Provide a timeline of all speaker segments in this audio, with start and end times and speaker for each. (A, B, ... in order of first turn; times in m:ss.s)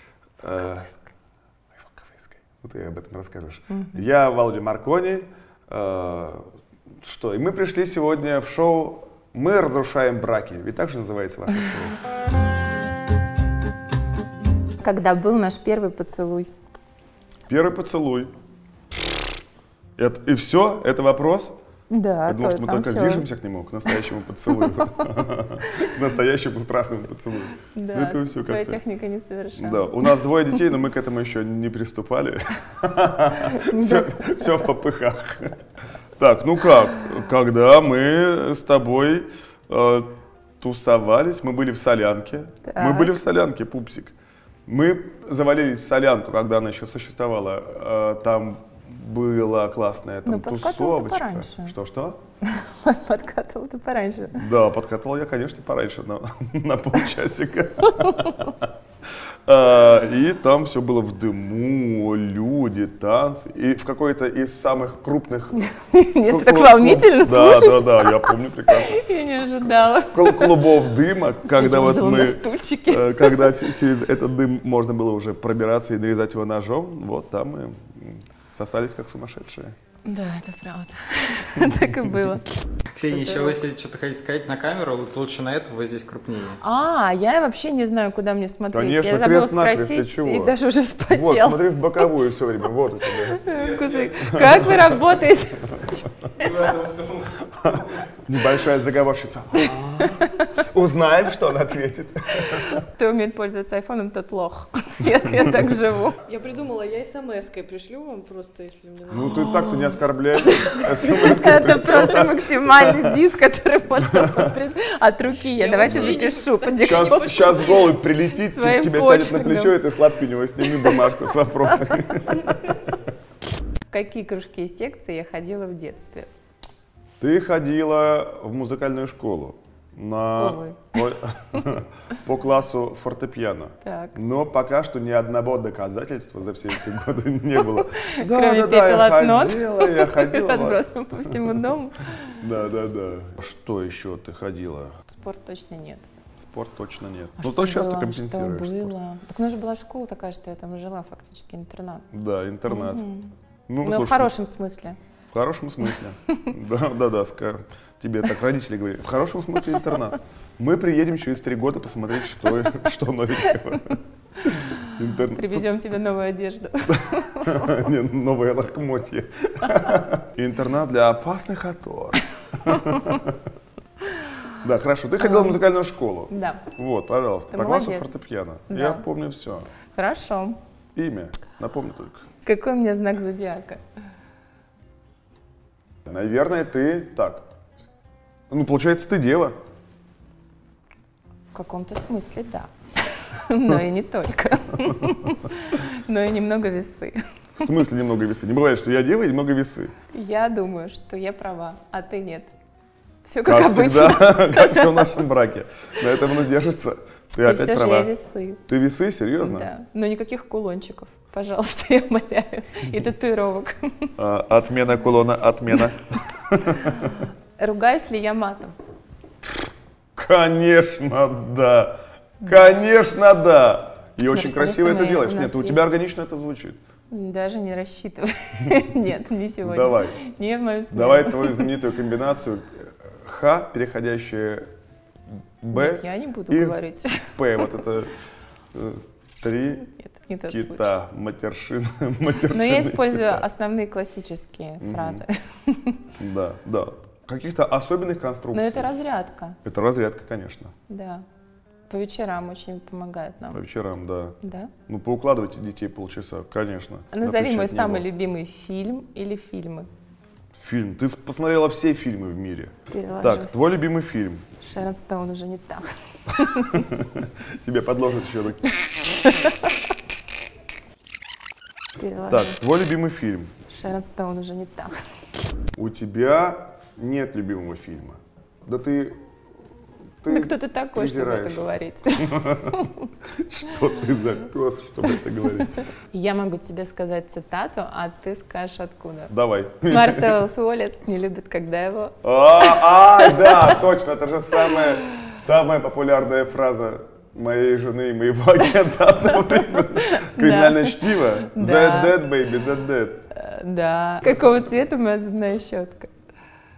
0:00.4-0:00.9 A
0:00.4-0:01.1 B
0:01.8-0:06.4 A
0:03.7-0:04.0 B
0:07.0-0:12.0 A
0:14.8-0:16.5 B
0:17.5-0:18.3 A
0:20.0-0:21.5 A
0:21.9-0:23.3 B
0:22.3-0:28.8 A
0:24.5-0:25.1 B
0:27.7-0:30.1 B
0:29.6-0:35.6 A
0:33.4-0:34.6 B
0:36.2-0:44.1 A
0:42.7-0:43.2 B
0:44.6-0:52.2 A
0:50.2-0:51.7 B
0:52.4-0:54.4 B
0:54.3-0:58.7 A
0:59.5-1:05.7 A
1:05.5-1:10.8 B
1:06.2-1:09.0 A
1:10.1-1:19.7 A
1:11.4-1:13.7 B
1:20.0-1:22.6 B
1:22.9-1:26.6 C
1:23.1-1:23.6 B
1:26.6-1:32.1 B
1:28.7-1:30.5 A
1:31.1-1:33.5 A
1:33.3-1:36.7 B
1:34.2-1:34.5 A
1:37.5-1:42.8 A
1:39.6-1:40.4 B
1:42.8-1:46.2 B
1:46.2-1:49.3 D
1:49.1-1:53.2 A
1:49.2-1:59.9 B
1:55.6-1:57.3 D
1:55.8-1:56.2 A
1:56.8-2:02.8 A
2:00.6-2:02.7 B
2:03.9-2:06.3 B
2:07.2-2:21.3 A
2:10.3-2:11.0 B
2:13.8-2:14.2 B
2:17.6-2:22.4 B
2:22.4-2:24.9 A
2:25.1-2:26.0 B
2:26.4-2:28.9 A
2:27.4-2:32.0 B
2:32.1-2:33.0 A
2:32.7-2:33.3 B
2:33.7-2:34.3 A
2:33.8-2:35.0 B
2:35.3-2:45.6 A
2:45.2-2:47.9 B
2:47.4-2:53.4 A
2:54.5-2:59.7 A
2:55.2-2:55.6 B
2:56.3-2:56.7 B
2:57.5-2:58.1 B
2:58.7-2:59.0 B
2:59.9-3:00.6 B
3:00.9-3:02.2 A
3:02.4-3:03.8 B
3:06.0-3:07.4 A
3:08.5-3:09.6 A
3:11.5-3:17.7 B
3:17.6-3:19.9 A
3:20.1-3:22.5 B
3:23.2-3:25.2 B
3:23.4-3:28.1 A
3:27.4-3:28.6 B
3:28.7-3:29.7 A
3:29.4-3:34.1 B
3:34.2-3:37.1 A
3:36.9-3:38.7 B
3:40.1-3:46.8 A
3:42.4-3:42.7 B
3:44.3-3:46.0 B
3:47.1-3:51.8 B
3:49.6-3:50.2 A
3:50.9-3:54.7 A
3:55.6-3:58.2 A
3:55.7-3:57.8 B
3:58.7-3:59.8 A
3:59.6-4:00.9 B
4:00.5-4:03.4 A
4:02.5-4:06.1 B
4:04.8-4:05.2 A
4:06.2-4:08.9 A
4:08.5-4:09.6 B
4:09.6-4:10.7 A
4:10.9-4:11.2 B
4:11.9-4:13.6 B
4:13.5-4:18.0 A
4:14.4-4:14.7 B
4:17.1-4:19.9 B
4:20.6-4:24.4 A
4:22.9-4:23.7 B
4:24.6-4:26.9 B
4:26.6-4:29.3 A
4:29.3-4:29.7 B
4:32.0-4:32.7 B
4:32.3-4:33.5 A
4:33.7-4:34.9 B
4:35.7-4:39.2 A
4:40.2-4:41.7 A
4:40.3-4:43.1 B
4:42.2-4:42.8 A
4:43.4-4:45.8 A
4:45.4-4:49.3 B
4:49.3-4:50.4 A
4:49.9-4:53.8 B
4:52.2-5:03.2 A
4:59.5-5:02.2 B
5:03.3-5:06.1 B